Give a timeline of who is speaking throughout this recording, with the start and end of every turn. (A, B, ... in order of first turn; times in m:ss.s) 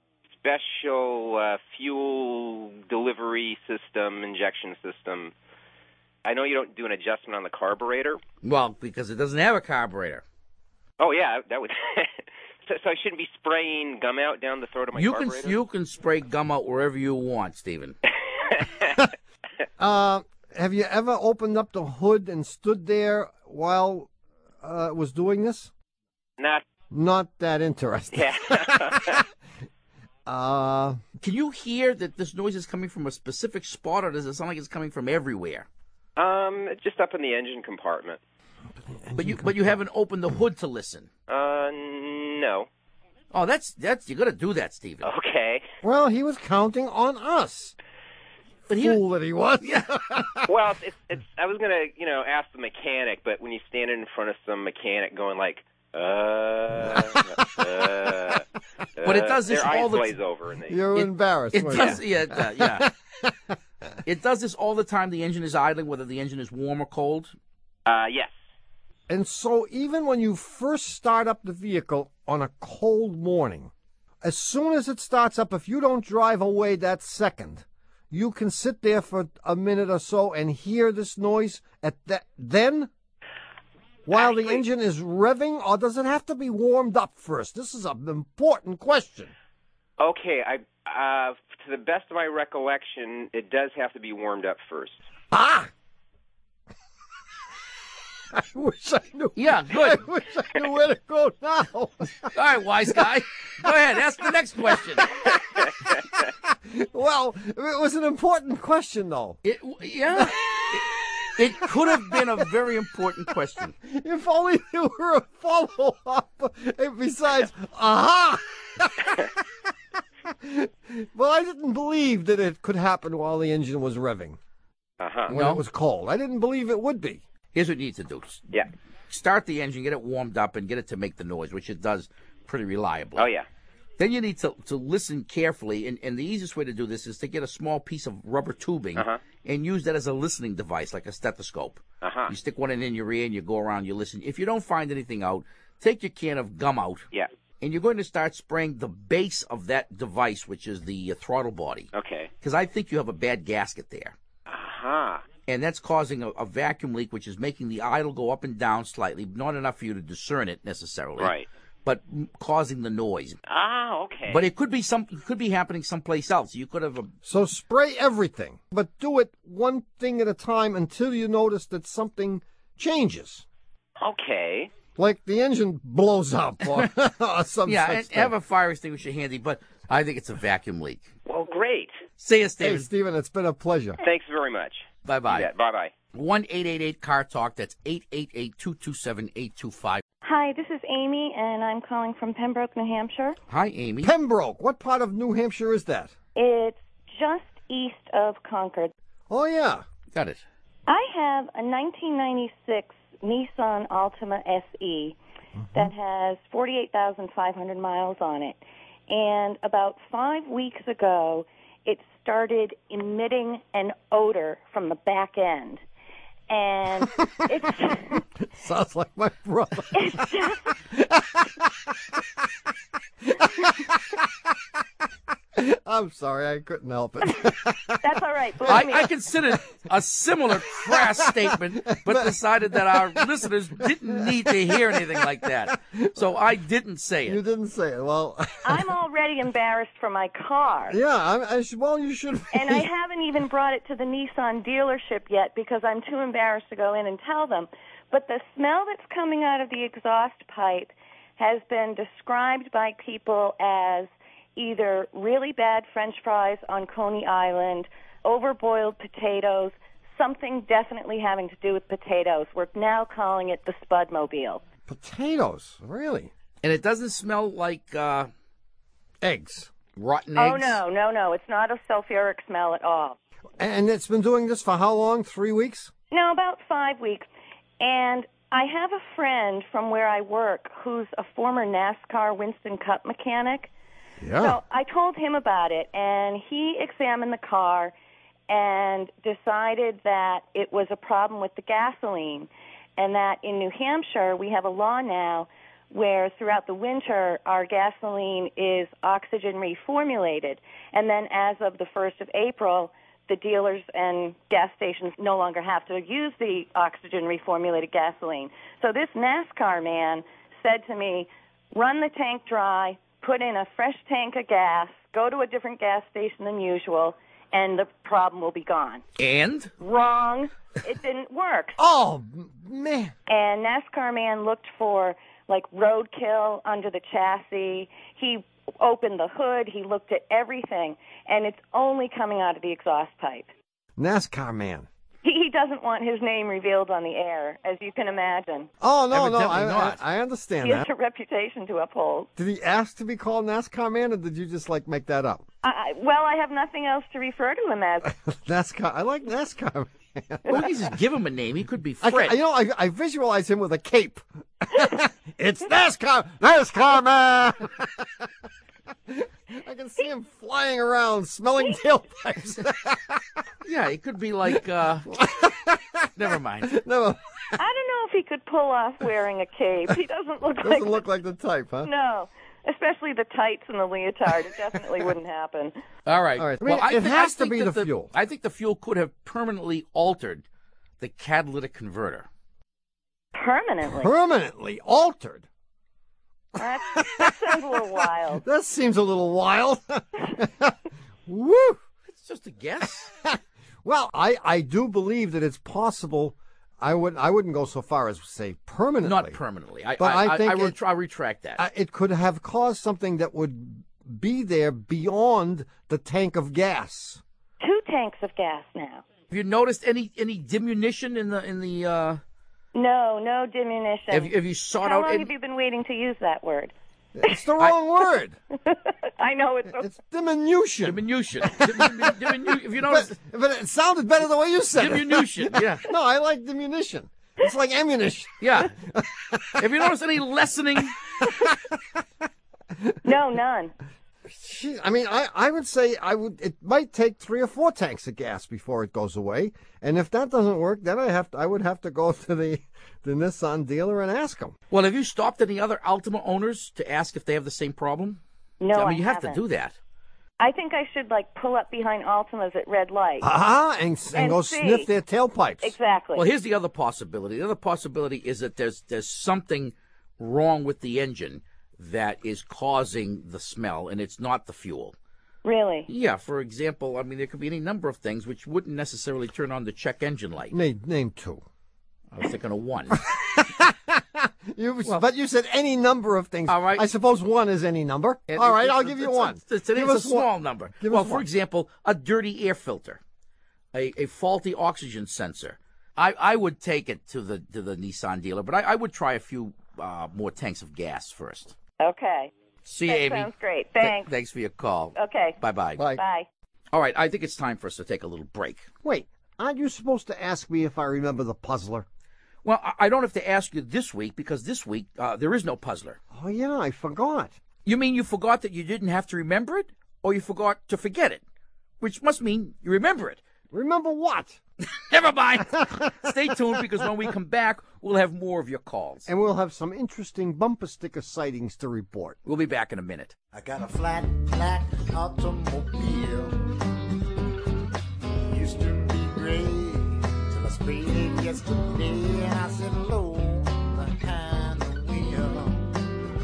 0:00.4-0:05.3 A
0:06.2-0:08.2 A
0:08.4-0:10.2 B
0:11.0-0:15.6 A
0:14.9-0:18.0 B
0:18.5-0:19.0 A
0:19.8-0:24.1 C
0:24.6-0:25.7 C
0:26.9-0:29.2 C
0:28.1-0:29.2 A
0:30.2-0:31.0 C
0:31.2-0:35.6 B
0:36.2-0:38.2 A
0:38.8-0:39.7 C
0:39.2-0:41.1 B
0:41.3-0:42.7 A
0:43.3-0:45.1 B
0:45.0-0:45.6 A
0:45.8-0:47.8 C
0:48.7-0:49.0 B
0:48.7-0:50.5 C
0:49.6-0:49.9 B
0:50.5-0:58.4 A
0:56.9-0:57.7 C
0:59.0-1:00.8 A
0:59.0-1:00.2 B
1:00.7-1:03.5 C
1:00.9-1:02.9 B
1:04.0-1:07.3 B
1:07.8-1:08.3 A
1:09.1-1:22.9 C
1:24.1-1:29.3 C
1:24.2-1:24.6 A
1:30.0-1:35.0 A
1:35.3-1:35.7 C
1:38.3-1:42.3 C
1:39.4-1:40.1 B
1:42.3-1:45.1 B
1:44.6-1:45.0 C
1:46.4-1:49.4 C
1:49.4-1:53.8 B
1:50.1-1:50.8 C
1:51.6-1:52.4 C
1:53.8-1:59.4 C
2:00.2-2:04.4 C
2:05.0-2:05.3 A
2:05.3-2:07.2 C
2:05.3-2:05.6 B
2:07.5-2:08.4 B
2:09.1-2:13.3 B
2:13.2-2:13.5 A
2:14.0-2:27.1 B
2:22.0-2:22.3 A
2:27.6-2:31.9 B
2:31.9-2:32.3 A
2:32.4-2:34.1 B
2:34.5-2:35.2 A
2:35.5-2:43.4 B
2:41.2-2:41.4 A
2:43.5-2:44.4 A
2:44.3-2:47.1 B
2:47.2-2:53.4 C
2:54.0-2:54.7 A
2:55.0-2:58.3 C
2:57.6-3:01.1 B
3:01.3-3:02.0 A
3:02.2-3:02.9 B
3:02.6-3:04.0 C
3:04.0-3:05.9 A
3:05.0-3:05.5 B
3:06.1-3:10.0 B
3:10.2-3:13.4 D
3:13.5-3:14.1 B
3:14.0-3:16.1 C
3:16.4-3:18.9 D
3:19.3-3:19.8 C
3:20.1-3:20.4 B
3:20.9-3:25.2 D
3:25.7-3:35.8 D
3:36.5-3:38.2 D
3:38.6-3:42.2 C
3:39.9-3:40.6 D
3:43.3-3:44.6 C
3:45.6-3:48.0 C
3:48.0-3:49.1 D
3:48.6-3:48.9 C
3:48.7-3:57.4 B
3:50.5-3:56.3 C
3:57.2-3:58.9 C
3:58.6-4:01.0 D
4:00.9-4:02.9 C
4:02.5-4:24.6 D
4:24.9-4:26.3 C
4:26.6-4:28.3 B
4:29.2-4:29.7 C
4:30.0-4:30.8 B
4:30.4-4:33.2 D
4:33.6-4:35.9 C
4:36.1-4:37.3 D
4:37.8-4:43.7 D
4:44.2-4:44.6 C
4:44.4-4:47.9 D
4:48.5-5:19.0 D
5:19.2-5:19.7 B
5:19.8-5:21.8 D
5:21.8-5:23.1 C
5:23.3-5:33.5 D
5:34.0-5:34.9 C
5:35.2-5:38.7 D
5:38.8-5:40.9 C
5:39.1-5:40.0 B
5:40.6-5:42.3 D
5:42.4-5:45.4 C
5:45.6-5:48.1 D
5:48.1-5:50.8 C
5:50.5-5:52.4 B
5:52.0-5:58.3 C
5:59.1-6:03.4 C
6:03.6-6:05.2 B
6:05.1-6:07.2 C
6:06.2-6:06.8 B
6:07.6-6:11.0 D
6:10.6-6:11.9 C
6:11.8-6:15.8 D
6:16.0-6:20.4 B
6:16.4-6:18.1 C
6:21.0-6:22.3 B
6:23.4-6:24.1 D
6:23.8-6:25.5 C
6:26.6-6:28.4 D
6:26.9-6:27.4 C
6:28.3-6:30.8 C
6:31.3-6:31.8 C
6:32.1-6:33.1 B
6:33.2-6:39.4 C
6:39.0-6:41.6 B
6:40.0-6:40.8 C
6:41.6-6:47.2 C
6:47.6-6:49.0 D
6:49.3-6:52.2 B
6:52.8-6:56.7 D
6:54.1-6:55.3 B
6:57.1-6:58.4 C
6:58.6-6:59.9 D
6:59.8-7:09.9 C
7:00.8-7:03.1 B
7:04.8-7:05.9 B
7:08.4-7:08.7 B
7:09.6-7:11.0 B
7:11.1-7:12.0 C
7:13.0-7:13.7 D
7:14.2-7:24.5 C
7:24.7-7:28.2 B
7:28.6-7:29.4 D
7:28.7-7:29.8 B
7:30.4-7:33.3 D
7:33.2-7:35.8 C
7:34.1-7:34.9 D
7:35.6-7:36.2 D
7:36.1-7:44.9 B
7:45.4-7:45.9 D
7:45.9-7:50.5 B
7:50.5-7:51.4 C
7:52.1-7:53.0 B
7:53.0-8:01.2 C
7:56.5-7:56.8 B
7:58.3-8:03.0 B
8:03.7-8:11.5 B
8:11.8-8:12.3 D
8:12.6-8:13.3 B
8:12.9-8:14.1 D
8:13.8-8:15.8 B
8:15.0-8:15.4 D
8:16.0-8:16.3 D
8:16.7-8:18.7 B
8:18.8-8:21.9 C
8:22.4-8:26.0 B
8:26.1-8:27.3 C
8:27.6-8:31.2 B
8:31.8-8:33.2 B
8:33.5-8:34.4 C
8:34.7-8:39.1 B
8:39.0-8:42.2 C
8:42.2-8:43.1 B
8:43.3-8:46.4 E
8:48.3-8:55.9 E